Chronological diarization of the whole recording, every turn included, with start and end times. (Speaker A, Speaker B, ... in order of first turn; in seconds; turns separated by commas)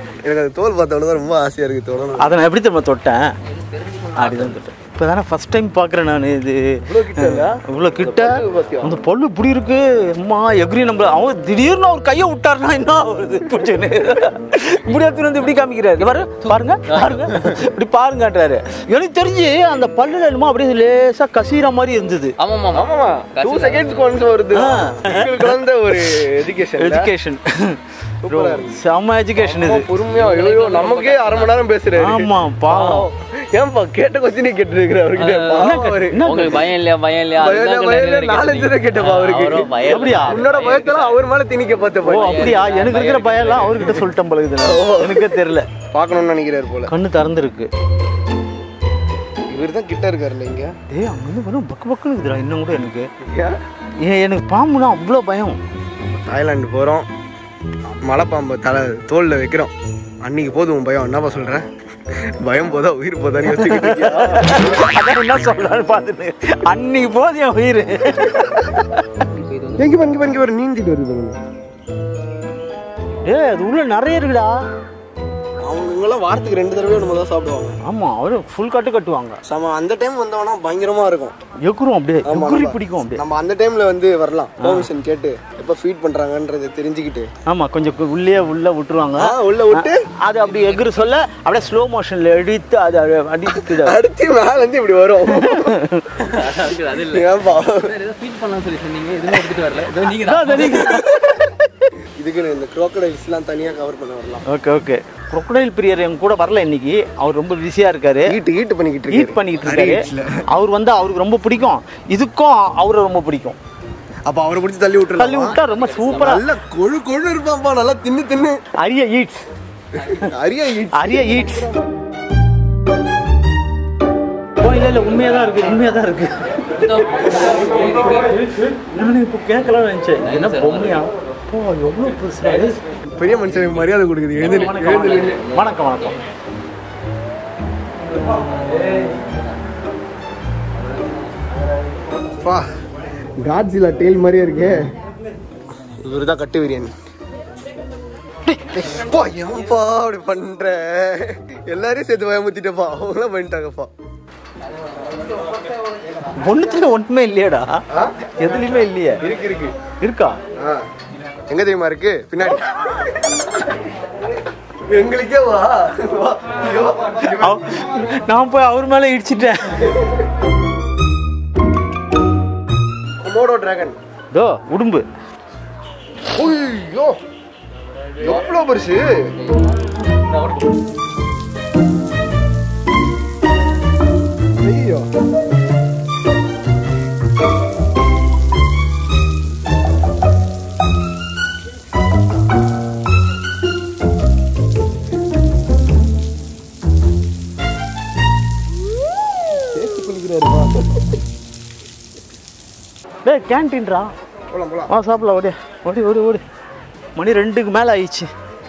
Speaker A: 0.2-2.3, Speaker B: 2.2-3.2, Speaker C: 3.5-4.6, Speaker B: 4.1-22.4, Speaker A: 6.8-8.9, Speaker C: 16.3-17.5, Speaker C: 22.4-24.3, Speaker A: 22.7-27.1, Speaker B: 24.5-26.2, Speaker B: 26.8-29.9, Speaker A: 28.2-28.8, Speaker C: 29.4-31.7, Speaker A: 29.6-36.2, Speaker B: 31.9-33.1, Speaker C: 35.1-41.3, Speaker B: 35.5-36.7, Speaker A: 37.4-42.6, Speaker B: 39.8-40.4, Speaker C: 42.0-44.1, Speaker B: 42.0-45.7, Speaker A: 44.6-46.9, Speaker B: 46.9-47.7, Speaker A: 49.5-50.7, Speaker B: 50.9-53.1, Speaker A: 53.2-53.5, Speaker B: 54.0-55.6, Speaker A: 56.0-57.1, Speaker A: 58.0-61.6, Speaker A: 62.4-64.7, Speaker B: 63.4-69.0, Speaker C: 69.3-70.0, Speaker A: 69.7-71.4, Speaker B: 73.2-74.5, Speaker A: 75.6-77.8, Speaker B: 77.8-79.4, Speaker A: 79.5-81.3, Speaker B: 81.6-83.2, Speaker A: 82.2-87.3, Speaker B: 84.6-84.9, Speaker B: 87.5-94.0, Speaker A: 89.2-90.0, Speaker C: 90.4-90.8, Speaker A: 93.5-95.7, Speaker B: 95.3-96.3, Speaker C: 96.2-101.0, Speaker A: 97.0-97.9, Speaker B: 100.2-101.9, Speaker A: 100.8-101.3, Speaker A: 102.2-104.4, Speaker B: 104.5-108.3, Speaker A: 108.2-110.4, Speaker B: 109.1-113.6, Speaker A: 114.3-115.6, Speaker B: 115.2-116.4, Speaker C: 115.7-116.4, Speaker A: 116.1-118.6, Speaker B: 118.8-119.4, Speaker A: 120.0-121.8, Speaker B: 121.0-121.8, Speaker B: 124.6-132.8, Speaker C: 126.7-128.3, Speaker C: 130.2-131.1, Speaker A: 133.1-135.4, Speaker C: 134.4-135.7, Speaker B: 134.5-136.2, Speaker A: 143.4-144.9, Speaker A: 145.9-146.9, Speaker B: 148.4-148.9, Speaker A: 148.8-153.9, Speaker B: 156.3-157.8, Speaker B: 158.4-159.2, Speaker A: 159.2-159.8, Speaker B: 160.0-160.3, Speaker A: 161.5-163.4, Speaker A: 164.9-167.8, Speaker B: 167.4-170.0, Speaker A: 173.2-174.0, Speaker B: 174.3-175.0, Speaker A: 176.3-177.1, Speaker A: 178.2-179.1, Speaker A: 184.6-185.1, Speaker A: 199.7-201.0, Speaker B: 203.2-204.1, Speaker A: 204.5-204.9, Speaker B: 204.9-206.4, Speaker B: 207.2-208.3